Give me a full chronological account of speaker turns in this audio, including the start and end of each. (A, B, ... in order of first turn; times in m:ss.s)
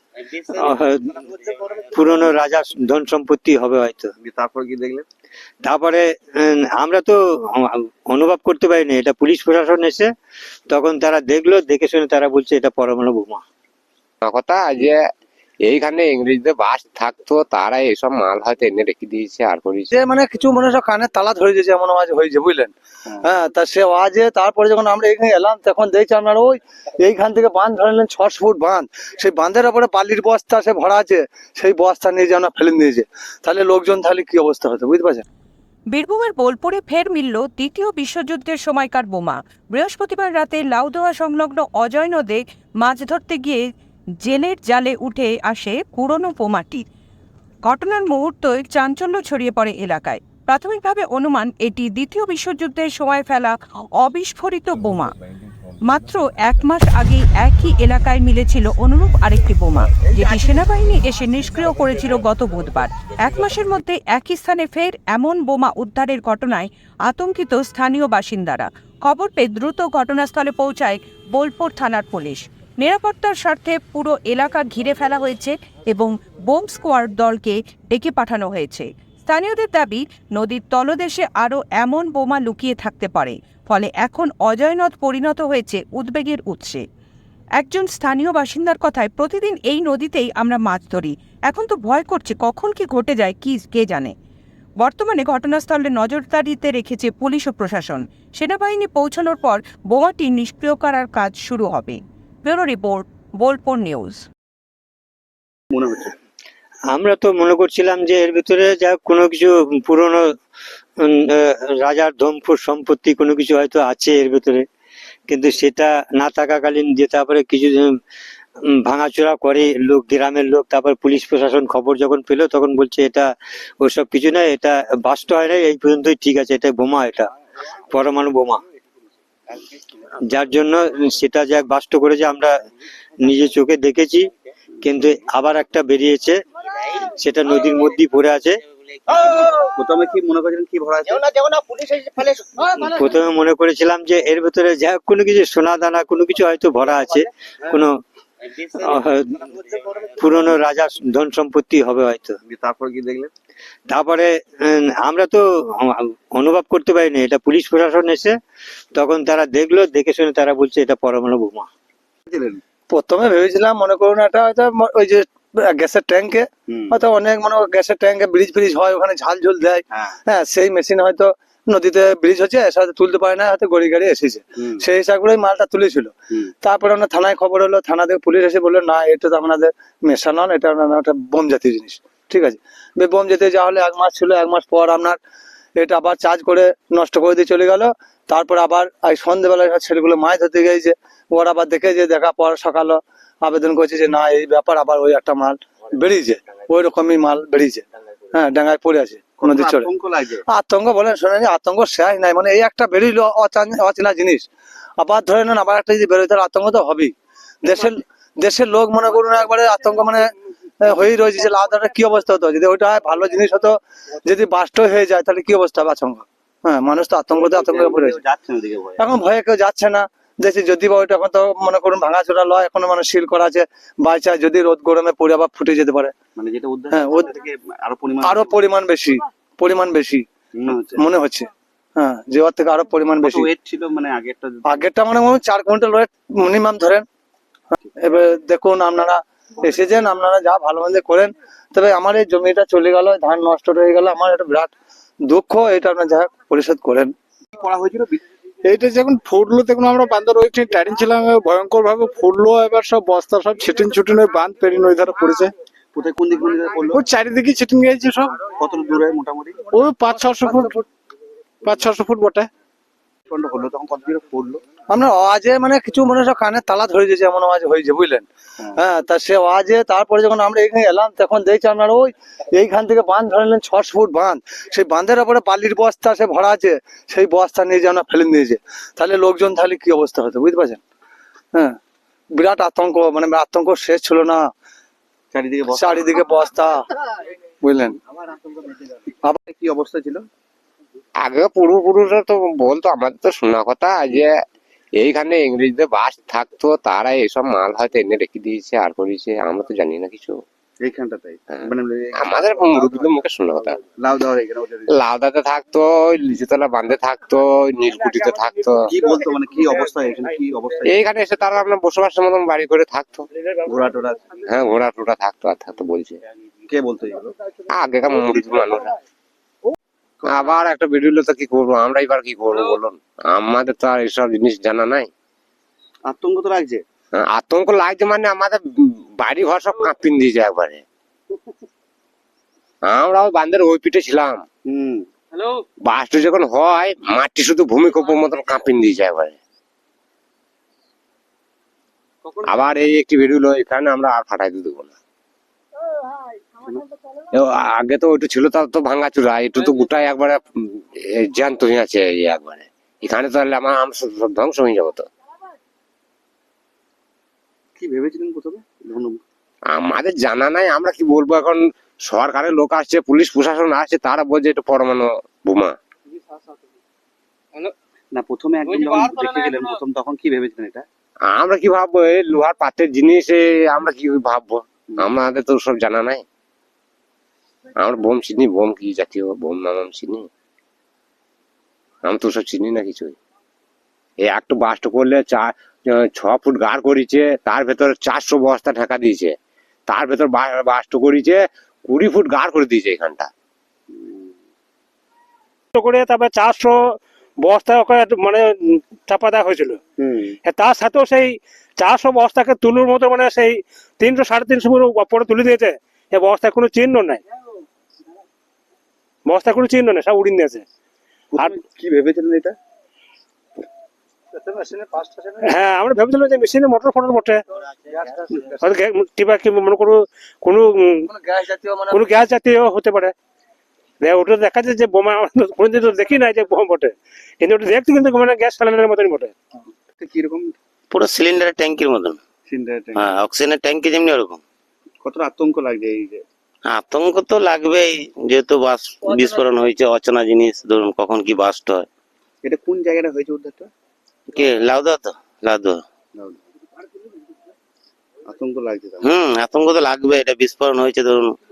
0:00.3-0:00.8 A
0:00.5-0:01.1 B
0:01.9-0:04.1 B
0:04.2-0:05.1 C
0:05.6-0:10.1 B
0:10.7-0:13.4 B
0:14.2-0:15.0 D
0:15.6-0:19.9 D
0:19.9-0:22.7 E
0:23.2-0:35.2 E
0:35.9-0:43.7 F
0:44.2-0:46.8 F
0:47.6-0:55.2 F
0:55.9-1:26.8 F
1:27.6-1:34.1 F
1:34.8-1:44.2 F
1:45.7-1:46.2 C
1:46.9-1:50.3 B
1:51.0-1:54.7 B
1:55.3-1:58.0 B
1:58.7-2:07.3 B
2:07.9-2:08.6 B
2:10.3-2:12.5 B
2:13.2-2:14.3 B
2:14.8-2:16.4 B
2:17.0-2:18.6 B
2:18.7-2:19.5 A
2:19.8-2:21.3 C
2:22.6-2:28.0 B
2:28.5-2:29.0 A
2:28.8-2:29.4 B
2:30.2-2:32.4 B
2:32.4-2:33.3 C
2:33.9-2:38.4 B
2:39.0-2:41.7 B
2:42.3-2:42.6 C
2:42.9-3:05.2 E
2:46.7-2:47.0 C
2:54.6-2:54.8 C
3:05.8-3:19.9 E
3:19.4-3:20.4 C
3:20.5-3:24.5 E
3:25.0-3:30.2 E
3:30.8-3:38.2 E
3:37.4-3:39.0 C
3:39.0-3:46.1 E
3:46.4-3:48.6 C
3:46.9-3:47.3 E
3:48.2-3:50.3 E
3:50.6-3:51.0 C
3:51.0-3:53.5 E
3:53.2-3:54.9 C
3:54.7-3:57.0 E
3:58.0-4:04.7 E
4:05.3-4:07.1 E
4:07.5-4:08.2 C
4:08.6-4:15.5 G
4:15.9-4:17.1 C
4:16.9-4:18.4 G
4:18.5-4:19.7 C
4:19.7-4:20.7 G
4:20.2-4:20.8 E
4:21.6-4:22.5 G
4:23.3-4:24.6 C
4:24.9-4:28.3 E
4:28.8-4:40.8 E
4:42.3-4:44.5 E
4:45.3-4:46.1 C
4:45.7-4:46.8 E
4:47.6-4:48.0 E
4:49.5-4:50.2 C
4:51.2-4:54.3 D
4:55.0-5:00.4 D
5:00.8-5:03.0 C
5:02.2-5:03.8 D
5:03.8-5:04.9 C
5:04.9-5:08.9 D
5:08.8-5:11.0 C
5:10.8-5:13.3 D
5:13.6-5:14.4 C
5:14.5-5:16.2 D
5:16.7-5:17.3 C
5:17.7-5:19.0 D
5:20.2-5:25.1 D
5:26.1-5:26.8 C
5:27.2-5:30.8 D
5:32.8-5:34.4 D
5:34.7-5:35.1 C
5:35.9-5:39.4 D
5:42.4-5:45.0 D
5:47.3-5:55.1 D
5:57.8-5:59.2 C
5:59.7-6:05.8 D
6:08.1-6:10.9 C
6:11.3-6:16.2 D
6:17.8-6:20.3 D
6:22.0-6:23.2 D
6:24.2-6:29.3 D
6:29.9-6:33.3 D
6:33.9-6:34.3 C
6:35.8-6:36.8 H
6:37.4-6:39.8 H
6:40.0-6:40.3 C
6:40.4-6:47.2 H
6:49.3-6:50.6 H
6:51.3-6:52.6 C
6:54.3-6:55.5 E
6:55.4-6:57.4 H
6:57.8-6:58.6 E
6:58.6-7:01.1 H
7:01.1-7:02.2 E
7:01.9-7:03.1 H
7:04.0-7:09.3 H
7:10.0-7:10.6 C
7:10.9-7:12.2 A
7:12.5-7:13.2 C
7:13.0-7:14.4 A
7:15.0-7:16.2 C
7:16.7-7:21.9 A
7:22.4-7:23.7 C
7:24.3-7:25.8 A
7:26.2-7:26.4 C
7:28.3-7:29.1 C
7:29.0-7:31.4 A